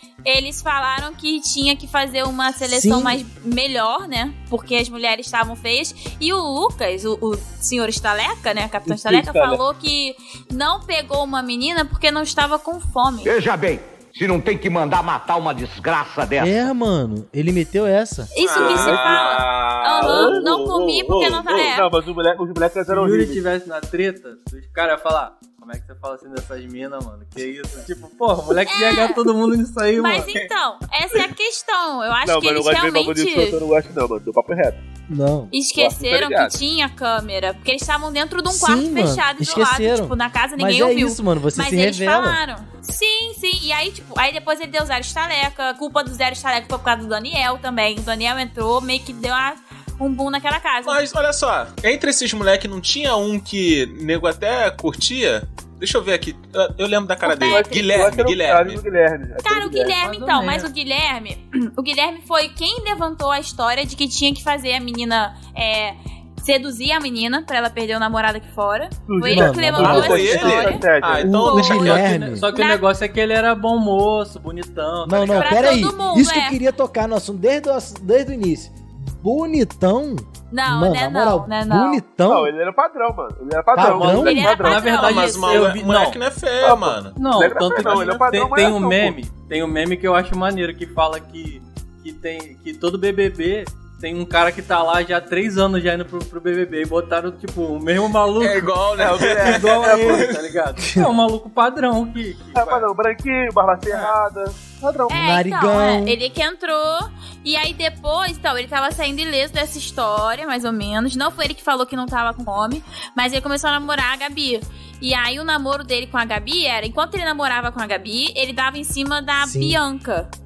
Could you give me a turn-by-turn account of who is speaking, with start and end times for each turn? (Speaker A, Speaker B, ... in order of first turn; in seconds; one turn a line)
Speaker A: 0.2-13.3
Speaker B: 2.6-3.2
Speaker C: 8.9-9.6
Speaker D: 13.2-16.7
Speaker B: 16.4-18.3
Speaker A: 18.3-21.9
Speaker E: 18.4-21.8
Speaker C: 18.5-20.5
Speaker C: 21.7-23.4
Speaker F: 22.9-30.4
Speaker A: 28.6-29.3
Speaker A: 30.0-33.6
Speaker C: 32.2-34.8
Speaker B: 35.1-35.5
Speaker A: 35.5-51.0
Speaker C: 35.8-36.5
Speaker B: 38.5-42.4
Speaker E: 50.9-58.8
Speaker A: 57.2-57.8
Speaker C: 57.4-60.0
Speaker A: 59.4-70.8
Speaker F: 60.0-60.7
Speaker C: 69.1-71.4
Speaker B: 69.3-70.5
Speaker E: 69.8-72.2
Speaker B: 71.2-72.5
Speaker F: 71.4-75.8
Speaker A: 72.5-72.8
Speaker B: 75.0-82.5
Speaker A: 75.3-76.6
Speaker A: 80.5-82.0
Speaker C: 82.2-85.1
Speaker B: 83.7-84.5
Speaker F: 83.8-86.2
Speaker A: 84.0-85.7
Speaker E: 84.9-87.2
Speaker C: 86.6-89.2
Speaker F: 87.2-98.8
Speaker E: 87.8-88.1
Speaker E: 98.4-100.3
Speaker C: 99.0-100.3
Speaker F: 99.3-102.9
Speaker C: 102.5-105.2
Speaker B: 105.1-106.2
Speaker A: 105.1-120.3
Speaker B: 119.4-119.8